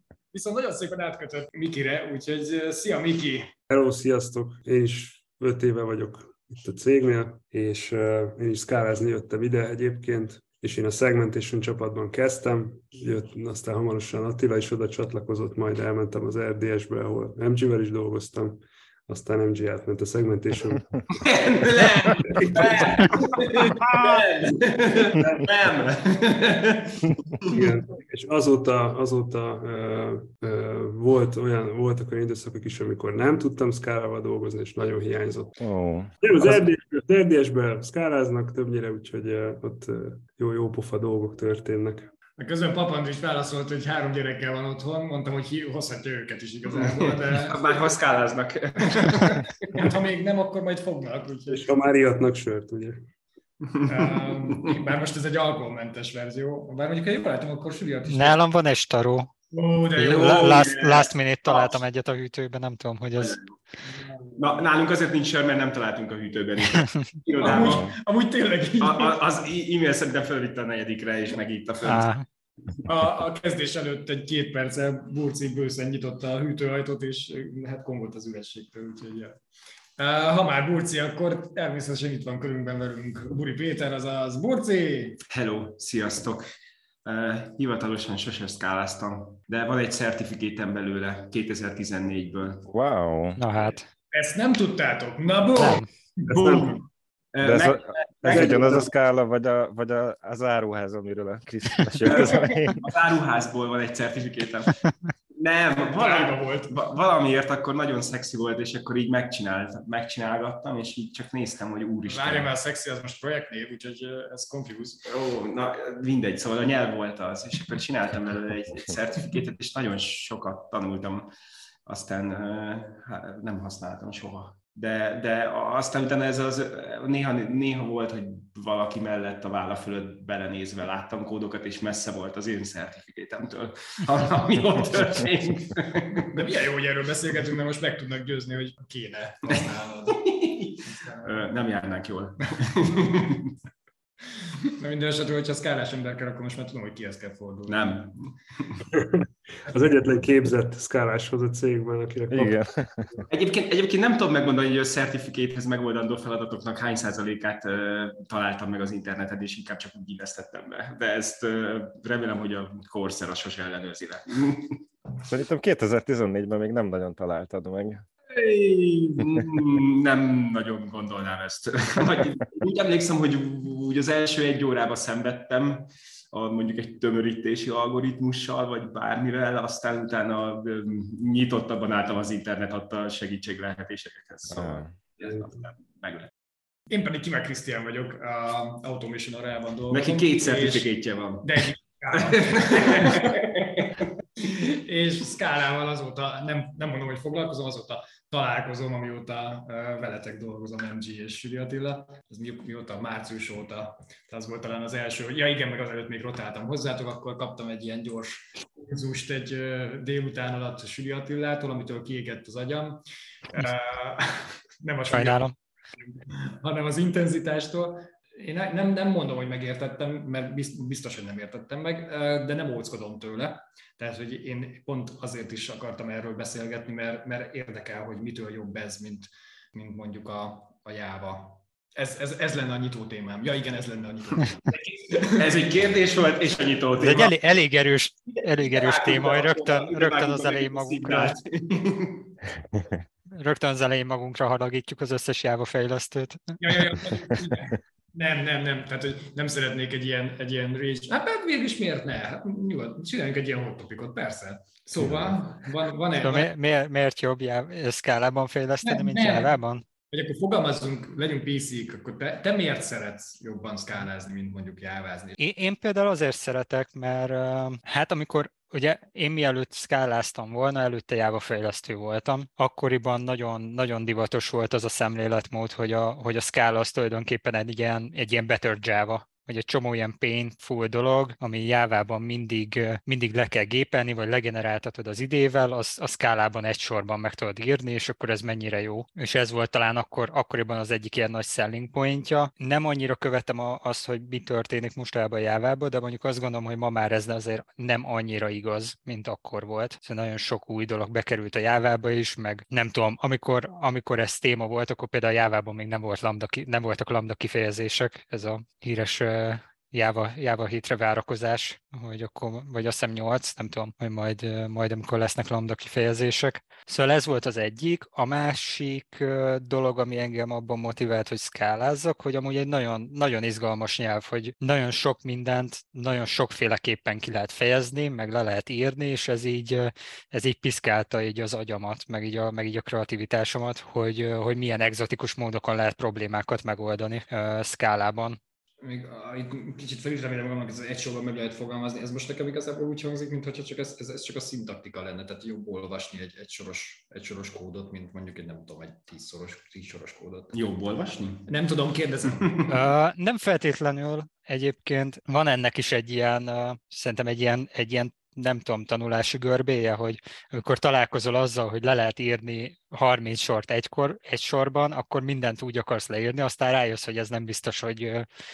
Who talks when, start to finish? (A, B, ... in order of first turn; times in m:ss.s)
0:00.3-0:03.5 A
0:03.7-0:21.2 B
0:21.2-0:27.6 C
0:22.1-0:23.1 B
0:22.8-0:24.2 A
0:25.1-0:25.4 B
0:27.5-0:35.6 B
0:35.6-0:36.6 D
0:36.2-0:42.1 B
0:42.4-0:47.9 A
0:47.2-0:49.8 C
0:48.8-0:51.7 A
0:51.5-0:53.0 B
0:53.8-0:58.4 A
0:58.1-0:59.3 E
0:59.5-1:01.7 A
1:00.0-1:03.4 E
1:00.1-1:01.1 C
1:03.2-1:03.5 C
1:04.4-1:07.9 C
1:06.7-1:07.1 E
1:07.4-1:09.2 A
1:07.5-1:07.9 D
1:08.8-1:12.1 C
1:11.8-1:12.2 E
1:12.8-1:19.4 A
1:20.0-1:25.2 A
1:25.3-1:26.4 C
1:27.0-1:32.6 C
1:32.7-1:33.4 D
1:33.4-1:33.8 E
1:34.1-1:36.7 A
1:35.6-1:35.9 E
1:36.3-1:36.8 B
1:36.3-1:36.8 C
1:37.3-1:38.8 C
1:37.4-1:42.8 D
1:38.2-1:38.9 B
1:42.0-1:52.5 C
1:42.0-1:42.5 A
1:45.9-1:46.8 A
1:52.0-1:55.0 A
1:55.0-2:01.3 C
2:01.8-2:16.4 C
2:16.2-2:20.2 A
2:20.1-2:23.5 C
2:20.9-2:21.4 A
2:24.8-2:28.0 A
2:27.7-2:28.8 C
2:28.9-2:32.6 B
2:32.3-2:33.2 D
2:33.3-2:44.8 C
2:45.3-2:48.0 D
2:48.3-3:06.3 C
3:04.5-3:04.9 D
3:06.9-3:10.9 A
3:09.9-3:11.6 C
3:11.4-3:13.5 A
3:12.2-3:14.0 C
3:14.4-3:33.0 A
3:33.5-3:35.5 A
3:35.1-3:35.5 E
3:36.2-3:55.5 A
3:55.3-3:57.3 C
3:57.0-4:01.4 E
3:58.4-4:02.3 C
4:02.7-4:03.0 D
4:03.4-4:07.0 E
4:06.6-4:16.5 A
4:16.2-4:19.8 E
4:18.8-4:19.5 A
4:20.1-4:25.4 A
4:25.4-5:38.4 E
5:38.8-5:50.6 A
5:50.5-5:51.5 C
5:51.4-5:52.7 A
5:52.7-6:08.2 E